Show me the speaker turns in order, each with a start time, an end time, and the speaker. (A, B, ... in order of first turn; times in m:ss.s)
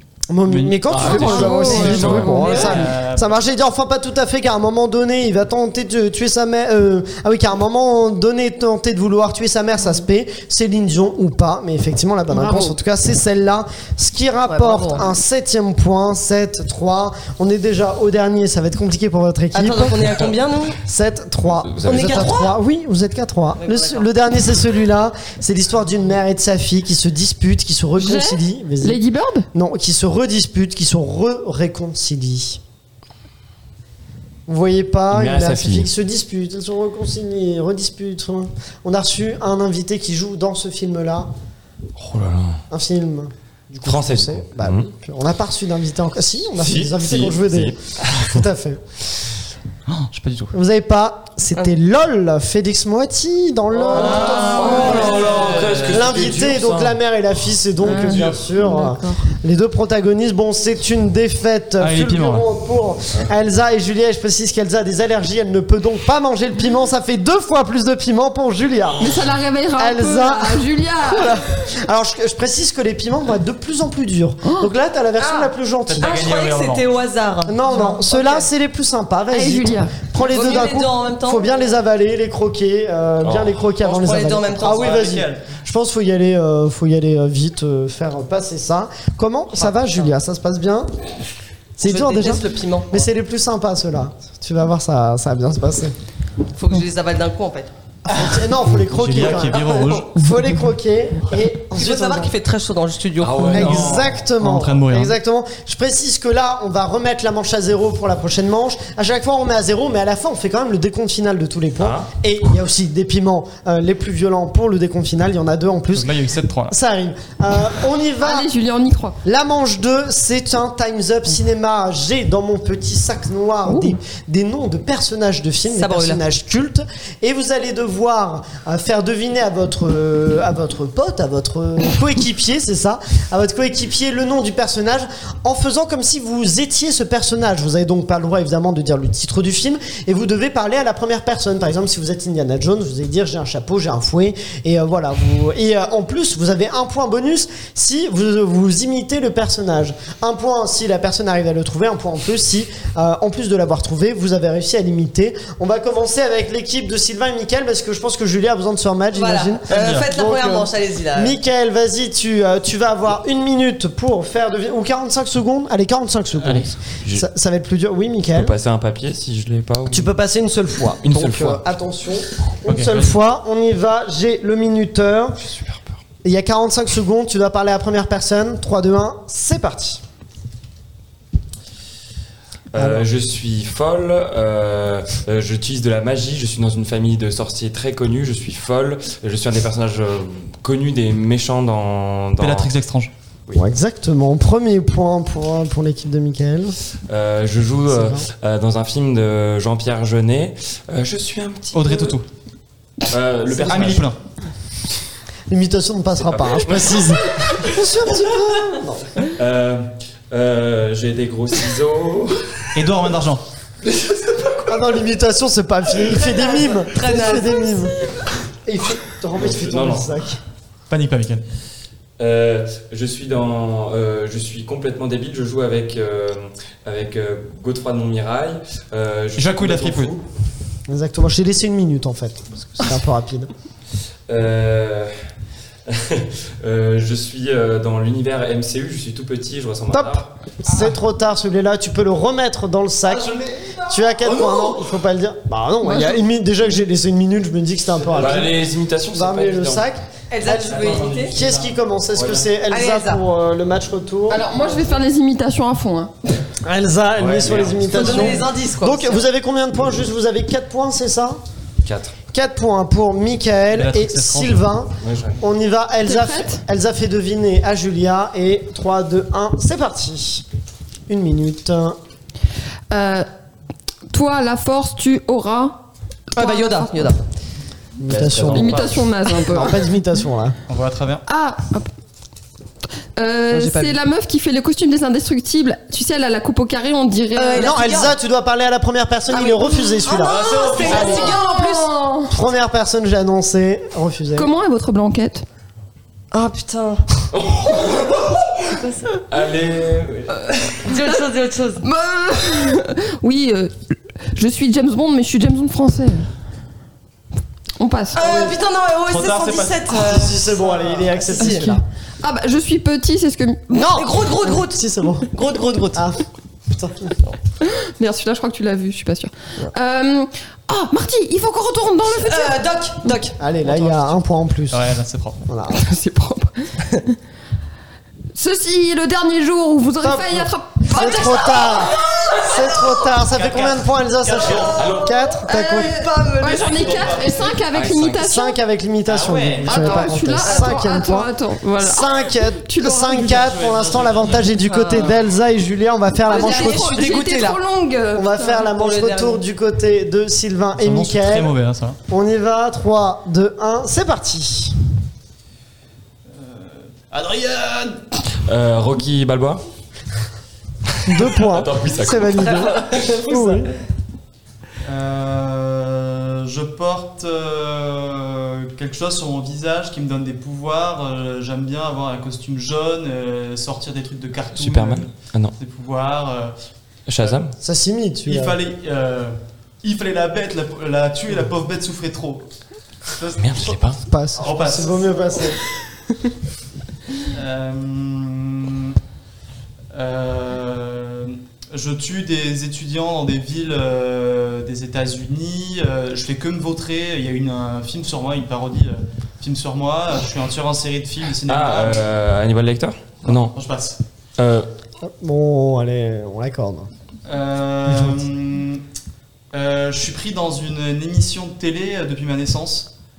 0:00.3-0:20.2 A
0:00.5-0:00.8 B
0:00.9-0:02.8 C
0:01.0-0:02.6 D
0:01.7-0:02.8 E
0:01.8-0:03.3 B
0:14.5-0:15.1 E
0:19.5-0:20.8 E
0:20.0-0:20.3 C
0:20.8-0:29.0 A
0:21.6-0:22.4 C
0:21.8-0:22.6 E
0:23.6-0:24.1 E
0:28.0-0:29.5 D
0:29.5-0:32.6 A
0:34.5-0:41.3 A
0:35.1-0:35.9 C
0:42.0-0:42.6 C
0:42.7-0:48.8 A
0:43.8-0:44.9 C
0:46.6-0:48.4 C
0:49.9-0:50.6 B
0:50.5-1:09.1 A
0:53.9-0:57.0 C
0:53.9-0:56.2 B
0:57.8-0:59.2 D
1:01.8-1:02.4 B
1:09.0-1:11.3 D
1:09.8-1:16.2 A
1:14.4-1:14.7 D
1:15.2-1:18.5 E
1:15.9-1:16.8 B
1:17.5-1:30.9 A
1:19.3-1:20.0 D
1:20.2-1:21.6 E
1:23.2-1:23.6 C
1:23.8-1:25.0 E
1:24.6-1:25.4 B
1:29.7-1:30.1 E
1:31.8-1:35.9 A
1:31.8-1:33.0 E
1:36.6-1:37.7 E
1:38.1-1:42.3 A
1:38.9-1:40.1 B
1:39.6-1:40.0 E
1:41.7-1:43.7 E
1:43.2-1:44.2 C
1:43.5-1:45.1 B
1:43.5-1:56.1 A
1:51.8-1:52.1 C
1:55.9-1:56.8 B
1:56.7-1:58.5 A
1:58.2-1:59.2 D
1:59.2-2:48.6 A
2:03.7-2:03.9 D
2:05.7-2:06.2 E
2:39.1-2:41.4 E
2:39.7-2:40.1 B
2:46.5-2:47.3 C
2:48.3-2:50.1 C
2:49.9-2:55.4 A
2:51.0-2:51.6 C
2:52.7-2:53.2 B
2:55.4-2:56.0 C
2:56.2-3:00.0 A
3:02.7-3:12.7 C
3:02.8-3:03.1 A
3:12.4-3:13.1 B
3:13.6-3:16.8 A
3:17.1-3:22.2 C
3:17.9-3:18.3 A
3:21.7-3:22.2 B
3:23.1-3:24.1 C
3:23.5-3:23.9 A
3:23.6-3:24.2 B
3:25.5-3:29.2 A
3:26.2-3:27.7 C
3:29.3-3:32.4 C
3:32.8-3:33.4 B
3:34.7-3:38.0 A
3:36.2-3:37.7 E
3:38.6-3:40.4 A
3:39.4-3:40.1 C
3:40.9-3:41.4 B
3:42.2-3:50.2 C
3:49.4-3:50.1 B
3:50.9-3:53.5 A
3:54.3-3:55.1 C
3:55.9-4:00.3 C
3:59.9-4:03.4 A
4:03.1-4:03.8 B
4:03.9-4:14.7 A
4:05.8-4:06.2 D
4:08.2-4:09.8 C
4:10.3-4:11.4 E
4:10.7-4:11.6 C
4:12.1-4:12.5 C
4:12.7-4:13.2 E
4:14.3-4:16.1 D
4:16.6-4:21.4 A
4:17.2-4:18.4 C
4:17.9-4:19.2 E
4:21.8-4:22.2 C
4:22.3-4:30.4 A
4:23.7-4:24.6 B
4:25.0-4:25.4 C
4:26.0-4:26.6 D
4:31.1-4:32.0 A
4:32.9-4:33.3 D
4:34.1-4:35.8 D
4:36.4-4:37.2 D
4:36.4-4:37.2 E
4:38.0-4:40.6 A
4:38.1-4:39.0 C
4:38.5-4:39.8 D
4:40.7-4:41.2 B
4:41.3-4:41.9 D
4:43.2-4:47.7 D
4:43.5-4:44.0 E
4:47.4-4:48.2 E
4:47.6-4:51.2 A
4:49.4-4:51.9 E
4:50.3-4:51.3 B
4:50.5-4:52.3 D
4:52.3-4:54.5 A
4:54.4-4:55.4 D
4:56.3-4:57.0 E
4:57.3-4:58.6 C
4:58.7-4:59.2 E
4:59.3-5:00.7 C
5:00.8-5:01.8 E
5:00.9-5:01.2 D
5:01.8-5:03.7 D
5:04.3-5:06.3 D
5:07.8-5:08.2 D
5:08.1-5:11.7 E
5:08.2-5:08.5 A
5:09.1-5:10.0 B
5:10.0-5:11.8 A
5:12.2-5:14.0 D
5:13.7-5:16.1 E
5:13.7-5:15.3 A
5:15.9-5:17.1 A
5:17.6-5:23.1 D
5:22.2-5:23.4 E
5:23.4-5:24.9 A
5:23.6-5:24.2 B
5:24.7-5:25.4 B
5:25.5-5:25.8 A
5:25.7-5:26.7 D
5:28.4-5:31.9 D
5:30.0-5:36.0 A
5:32.1-5:32.5 E
5:33.3-5:34.9 B
5:34.6-5:35.2 C
5:35.4-5:37.2 E
5:35.5-5:38.6 D
5:36.7-5:37.4 B
5:37.7-5:38.2 C
5:38.2-5:47.0 A
5:39.1-5:39.9 B
5:39.6-5:43.4 D
5:40.4-5:40.7 E
5:43.1-5:44.6 B
5:44.6-5:45.1 E
5:46.3-5:47.6 E
5:46.3-5:48.7 D
5:48.2-5:51.5 A
5:48.7-5:49.4 E
5:50.8-5:52.0 B
5:52.1-5:54.8 A
5:56.3-5:58.0 B
5:58.5-5:59.6 C
6:01.1-6:03.7 A
6:01.2-6:03.0 C
6:03.0-6:03.6 E
6:04.9-6:16.5 B
6:14.6-6:15.5 C
6:17.1-6:17.5 C
6:17.6-6:18.6 A
6:18.3-6:22.4 B
6:23.2-6:23.8 B
6:23.4-6:24.0 C
6:24.1-6:25.6 A
6:24.4-6:25.4 B
6:27.3-6:29.0 B
6:29.9-6:42.1 B
6:41.5-6:43.6 C
6:43.2-6:44.0 B
6:44.4-6:44.7 C
6:45.0-6:46.9 A
6:47.3-6:48.8 B
6:49.5-6:52.9 B